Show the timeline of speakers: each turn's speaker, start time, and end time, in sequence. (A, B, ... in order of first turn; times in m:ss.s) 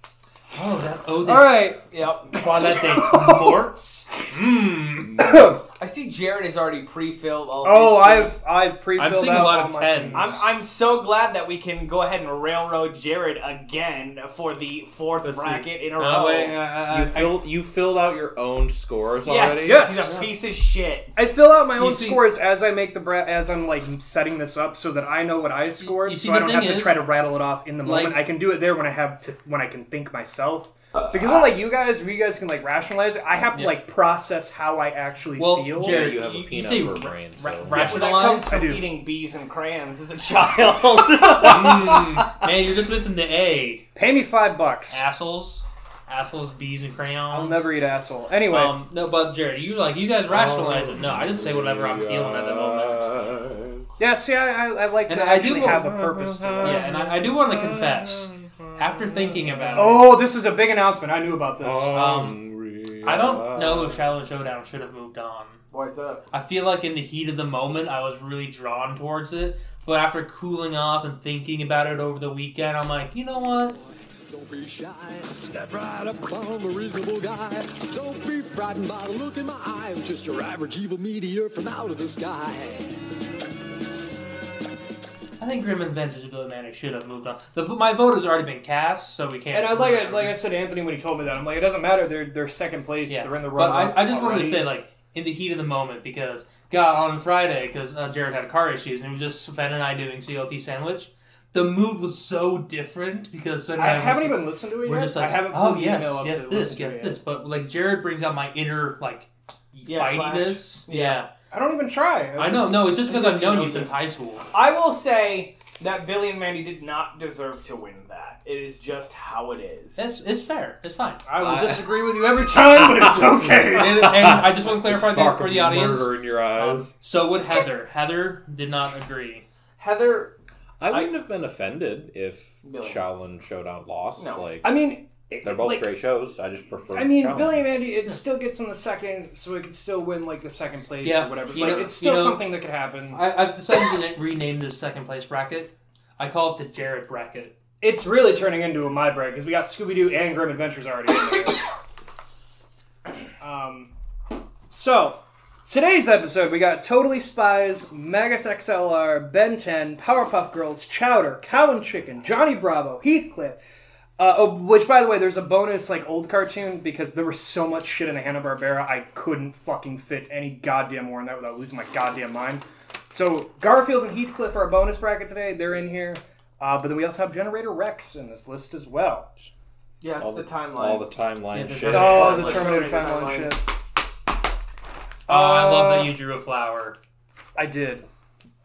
0:00.5-0:01.6 A
0:01.2-0:01.8 B
0:01.9-0:02.4 C
0:02.3-0:05.2 A
0:02.7-0:03.6 B
0:05.2-0:05.6 B
0:05.8-0:08.3 C
0:07.6-0:10.5 B
0:09.0-0:10.5 A
0:10.1-0:16.6 C
0:15.2-0:17.4 A
0:16.9-0:20.0 D
0:19.2-0:21.1 C
0:19.6-0:20.2 B
0:21.1-0:36.1 B
0:21.8-0:22.2 A
0:25.8-0:27.1 A
0:27.8-0:28.3 A
0:35.4-0:38.5 A
0:35.7-0:38.0 D
0:37.7-0:42.4 C
0:38.4-0:38.9 B
0:41.4-0:43.9 A
0:44.0-0:45.0 B
0:44.9-0:47.7 A
0:47.3-0:48.7 B
0:48.5-0:53.1 A
0:50.3-0:53.8 D
0:54.0-0:56.8 B
0:55.1-0:55.9 A
0:55.6-0:59.8 D
0:56.6-1:00.1 A
0:59.7-1:02.0 B
1:01.6-1:04.1 D
1:01.9-1:02.4 A
1:03.0-1:05.6 A
1:05.7-1:06.2 C
1:06.3-1:13.8 A
1:13.7-1:22.9 E
1:25.4-1:30.4 A
1:29.5-1:34.7 B
1:33.1-1:51.3 A
1:43.8-1:47.2 B
1:49.8-1:51.2 C
1:51.5-1:53.7 B
1:52.4-1:54.5 A
1:53.1-1:53.9 C
1:54.5-2:00.1 C
2:00.0-2:01.2 A
2:01.2-2:04.1 B
2:01.4-2:06.9 D
2:03.7-2:09.4 A
2:09.8-2:10.4 C
2:10.8-2:14.8 D
2:10.9-2:11.1 C
2:12.6-2:13.0 C
2:14.2-2:14.5 C
2:14.6-2:15.9 B
2:15.4-2:17.7 D
2:16.9-2:23.2 B
2:21.0-2:22.4 A
2:23.1-2:27.6 A
2:27.8-2:31.6 B
2:33.4-2:33.9 B
2:34.7-2:43.6 B
2:44.2-2:59.3 B
3:00.0-3:01.1 C
3:00.2-3:02.7 D
3:01.5-3:02.4 A
3:01.9-3:03.6 B
3:01.9-3:03.6 C
3:05.3-3:06.1 B
3:05.3-3:07.0 A
3:07.6-3:08.1 B